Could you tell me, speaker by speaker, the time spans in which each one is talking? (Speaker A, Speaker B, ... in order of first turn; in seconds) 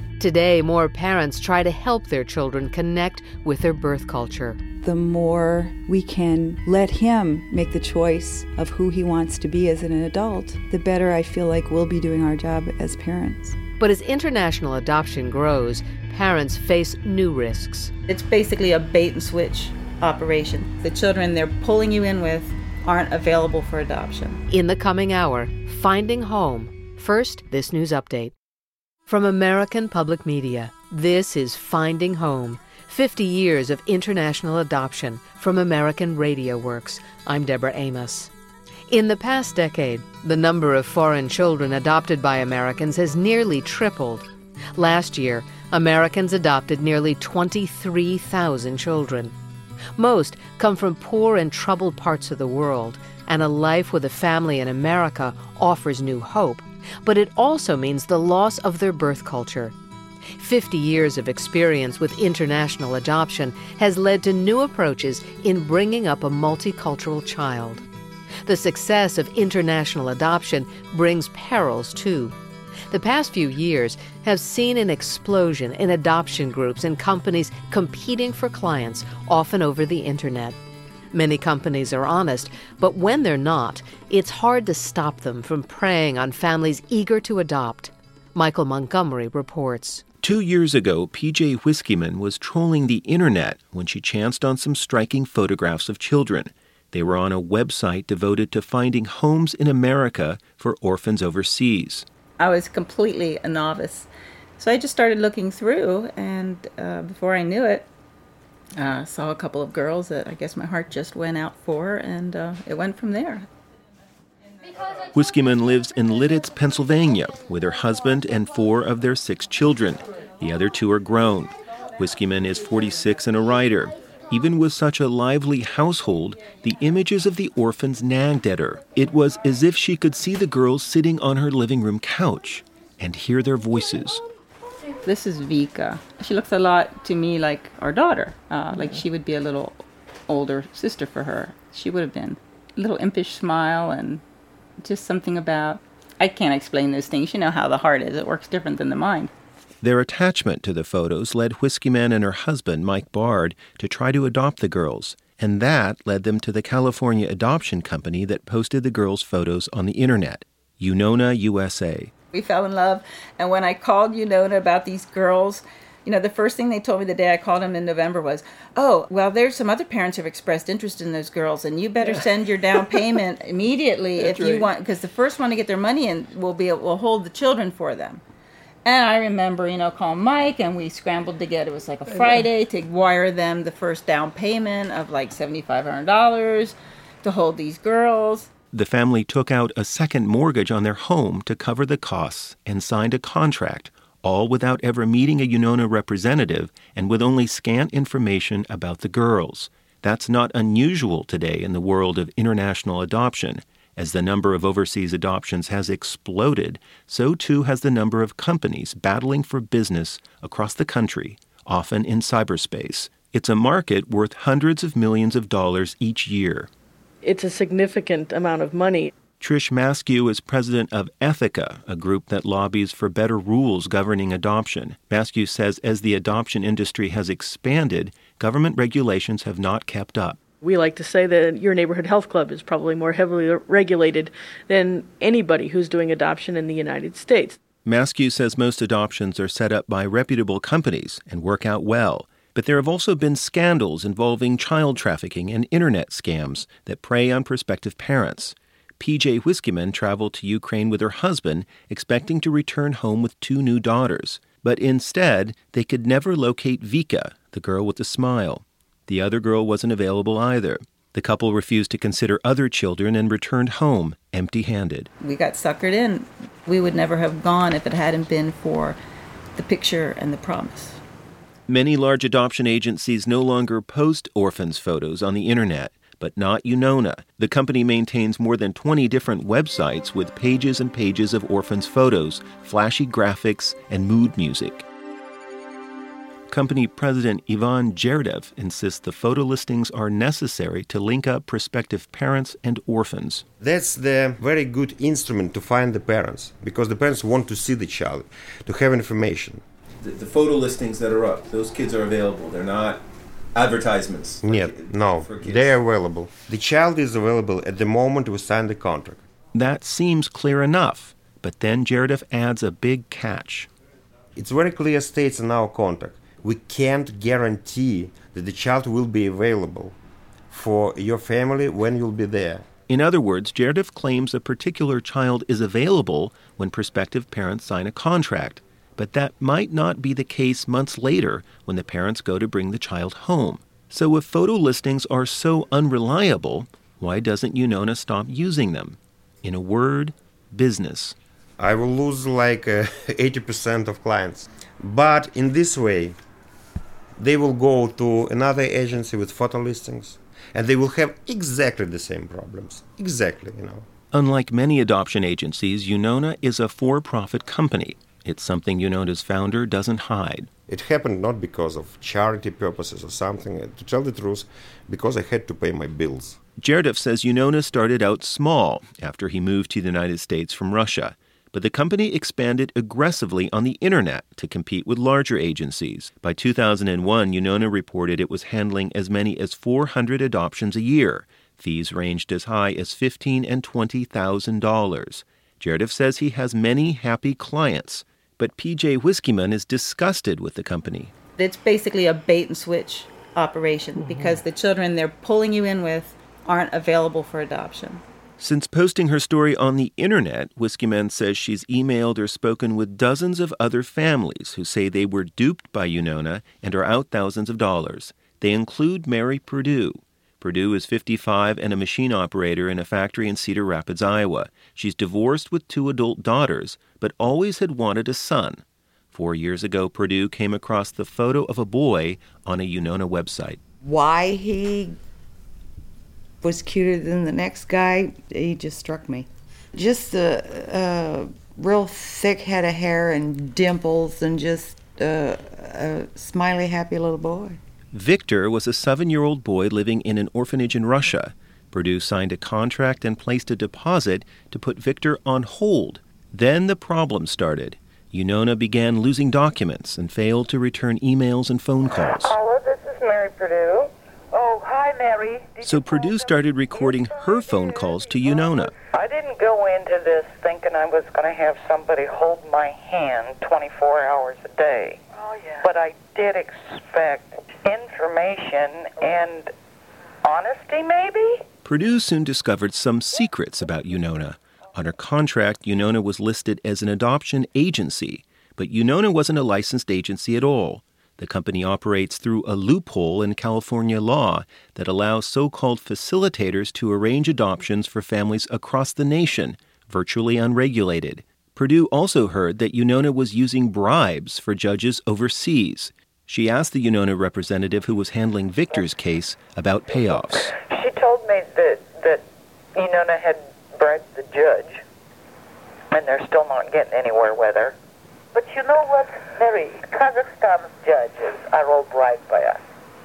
Speaker A: 0.2-4.6, 13.8-17.9, 24.5-28.3, 29.1-38.3, 38.9-49.3, 50.0-59.7, 60.4-67.8, 68.5-72.3, 72.9-80.6, 81.1-90.0
Speaker B: 4.8-13.6
Speaker C: 18.1-24.4, 102.4-107.9, 108.8-113.5, 135.0-144.2, 144.8-149.3, 162.3-178.2, 178.8-188.5, 265.2-269.0, 269.5-271.0, 391.3-398.0
Speaker D: 90.2-102.0, 115.1-134.2, 149.8-162.1, 188.7-216.7, 219.4-230.4, 237.8-265.1, 271.7-284.8, 286.5-293.4, 300.0-303.0, 303.5-305.8, 309.5-313.7, 322.9-341.1, 354.1-360.5, 366.6-391.1, 398.4-418.6, 419.1-423.6, 437.9-452.4, 455.6-458.7, 471.6-500.5
Speaker E: 217.2-219.1, 230.6-237.6
Speaker F: 293.6-299.6, 304.4-309.2, 314.4-319.9, 320.5-322.6, 341.6-346.2, 347.2-353.9, 360.7-366.4
Speaker G: 423.8-425.0, 426.4-437.6
Speaker H: 452.2-469.5, 470.2-471.4, 500.5-502.2, 502.7-504.8, 505.9-507.7, 508.3-512.6